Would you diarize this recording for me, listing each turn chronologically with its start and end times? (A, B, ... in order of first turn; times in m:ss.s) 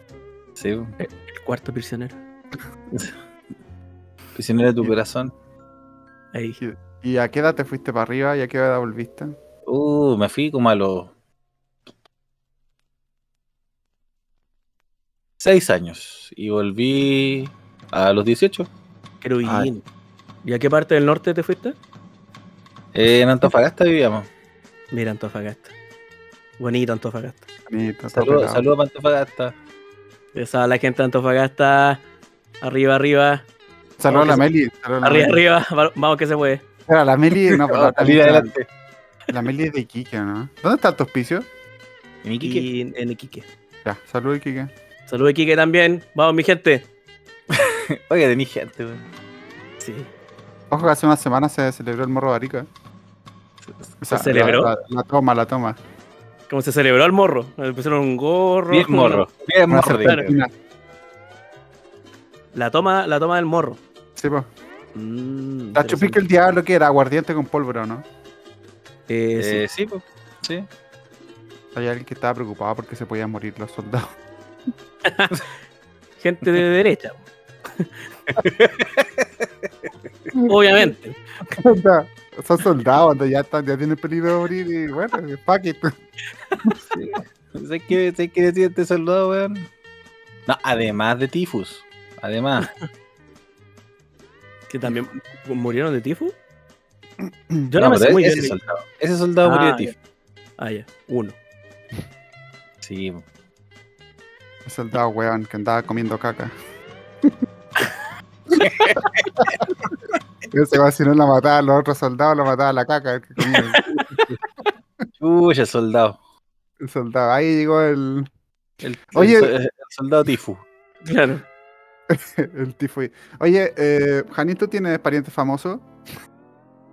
0:00.6-0:00.9 A
0:01.0-0:02.2 B
0:04.3-0:05.3 A
0:06.3-0:06.6 B
0:06.6-0:09.4 C
0:09.6-0:11.1 A
0:15.4-0:18.7 A
0:19.2-0:19.8 B
0:19.4-0:19.7 A
0:20.4-0:21.8 B
0:22.9-0:24.3 A
0:24.9-0:25.7 B
0:26.6-0:27.4 B
0:27.7-0:28.6 C
0:28.1-0:29.5 A
0:30.3-0:32.0 B
0:32.6-0:33.4 B
0:34.0-0:35.4 C
0:34.1-0:34.4 B
0:35.0-0:36.6 B
0:36.9-0:38.5 C
0:37.5-0:38.6 A
0:39.3-0:41.5 C
0:42.2-0:42.6 A
0:42.4-0:43.5 B
0:43.8-0:44.7 C
0:45.1-0:46.9 B
0:47.5-0:49.0 A
0:49.8-0:50.1 B
0:50.7-0:52.7 C
0:54.0-0:55.8 C
0:54.1-0:54.7 B
0:56.5-0:59.2 B
0:58.7-1:00.4 A
0:59.7-1:00.5 C
1:02.5-1:03.8 B
1:04.2-1:04.5 C
1:04.9-1:06.2 B
1:05.7-1:08.0 C
1:09.1-1:09.6 B
1:09.4-1:10.7 A
1:11.7-1:14.2 C
1:15.0-1:15.4 B
1:16.2-1:18.4 B
1:18.4-1:19.4 A
1:20.3-1:20.9 C
1:20.4-1:21.2 B
1:21.5-1:25.9 C
1:26.9-1:29.7 A
1:30.5-1:32.7 A
1:34.7-1:36.3 B
1:37.2-1:37.7 C
1:37.7-1:38.6 B
1:37.8-1:39.9 A
1:39.4-1:39.9 B
1:40.6-1:41.4 B
1:42.8-1:43.2 A
1:44.6-1:46.5 C
1:48.5-1:49.9 C
1:48.6-1:49.3 A
1:50.5-1:54.2 C
1:53.8-1:54.2 B
1:55.2-1:56.2 A
1:56.8-1:58.3 C
1:58.8-2:00.6 A
1:59.1-1:59.5 C
2:01.0-2:01.4 B
2:02.1-2:05.8 C